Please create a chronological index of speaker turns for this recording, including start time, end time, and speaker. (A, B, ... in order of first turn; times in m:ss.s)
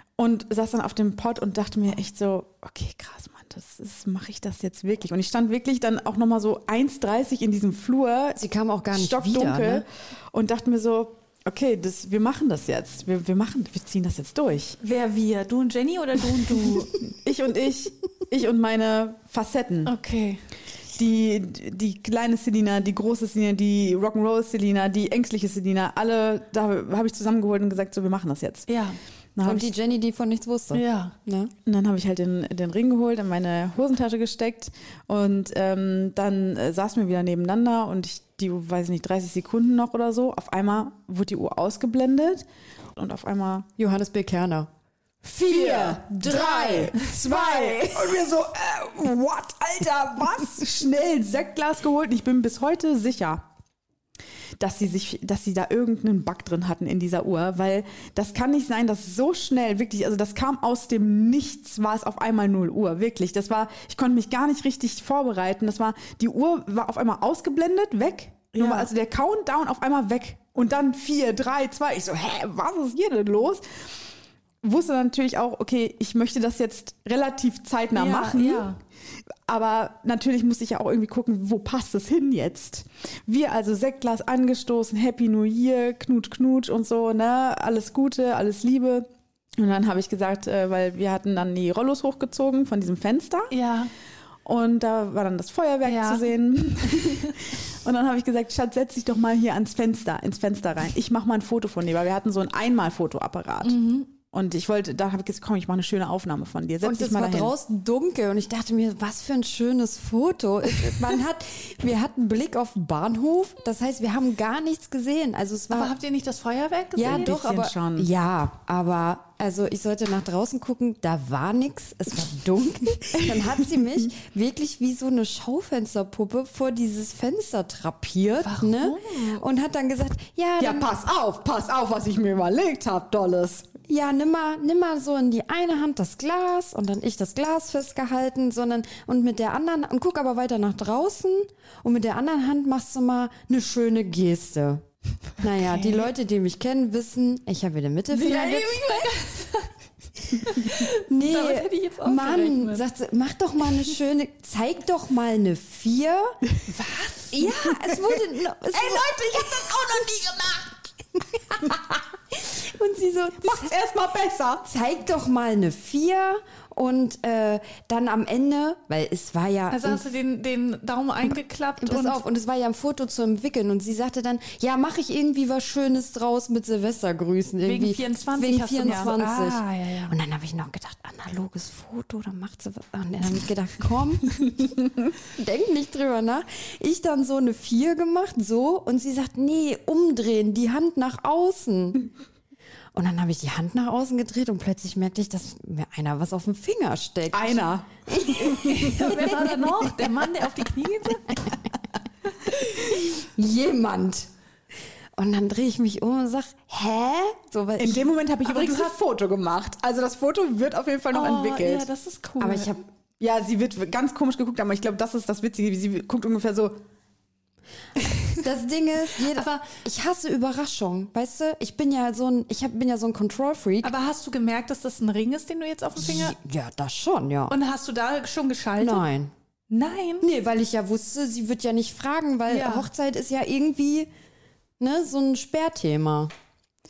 0:00.2-0:08.4 A
0:08.4-0:09.8 B
0:08.9-0:14.8 A
0:14.8-0:17.1 C
0:16.6-0:19.9 A
0:19.9-0:20.5 C
0:20.9-0:28.7 A
0:28.7-0:29.0 C
0:29.4-0:29.7 A
0:29.4-0:31.5 B
0:30.7-0:31.2 C
0:31.7-0:42.4 A
0:43.0-0:43.7 A
0:43.8-0:44.7 B
0:45.2-0:48.3 B
0:45.4-0:53.4 A
0:54.6-1:13.9 A
1:08.6-1:08.9 C
1:14.6-1:18.7 A
1:18.0-1:18.8 C
1:19.5-1:33.5 A
1:33.5-1:33.9 C
1:34.4-1:43.8 A
1:35.8-1:36.3 C
1:36.8-1:37.3 C
1:43.6-1:44.1 C
1:44.3-1:47.5 A
1:46.8-1:56.0 B
1:55.7-1:57.4 C
1:57.0-2:10.9 B
1:57.0-1:58.1 A
2:03.2-2:03.6 A
2:08.4-2:09.4 C
2:10.6-2:13.7 A
2:13.9-2:24.8 B
2:25.4-2:29.2 B
2:25.6-2:26.1 C
2:28.1-2:29.7 C
2:30.4-2:32.8 C
2:31.1-2:40.0 B
2:36.9-2:37.2 C
2:37.8-2:40.8 A
2:41.3-2:43.8 B
2:43.4-2:44.7 A
2:44.6-2:50.1 B
2:49.7-2:52.2 C
2:51.2-3:04.7 B
2:57.6-3:00.2 C
2:58.8-2:59.1 A
3:05.3-3:12.1 B
3:12.9-3:19.9 B
3:17.3-3:19.2 A
3:18.5-3:21.5 C
3:22.9-3:24.3 B
3:25.2-3:28.1 B
3:27.8-3:31.9 A
3:28.5-3:28.9 C
3:31.1-3:32.8 C
3:32.4-3:32.8 B
3:33.2-3:36.8 A
3:38.4-3:43.9 B
3:39.3-3:39.7 C
3:43.8-3:46.4 C
3:46.0-3:47.6 B
3:47.5-3:49.0 C
3:48.8-3:49.3 B
3:49.7-3:50.3 C
3:50.2-3:54.1 B
3:52.5-3:52.9 C
3:54.8-3:56.3 B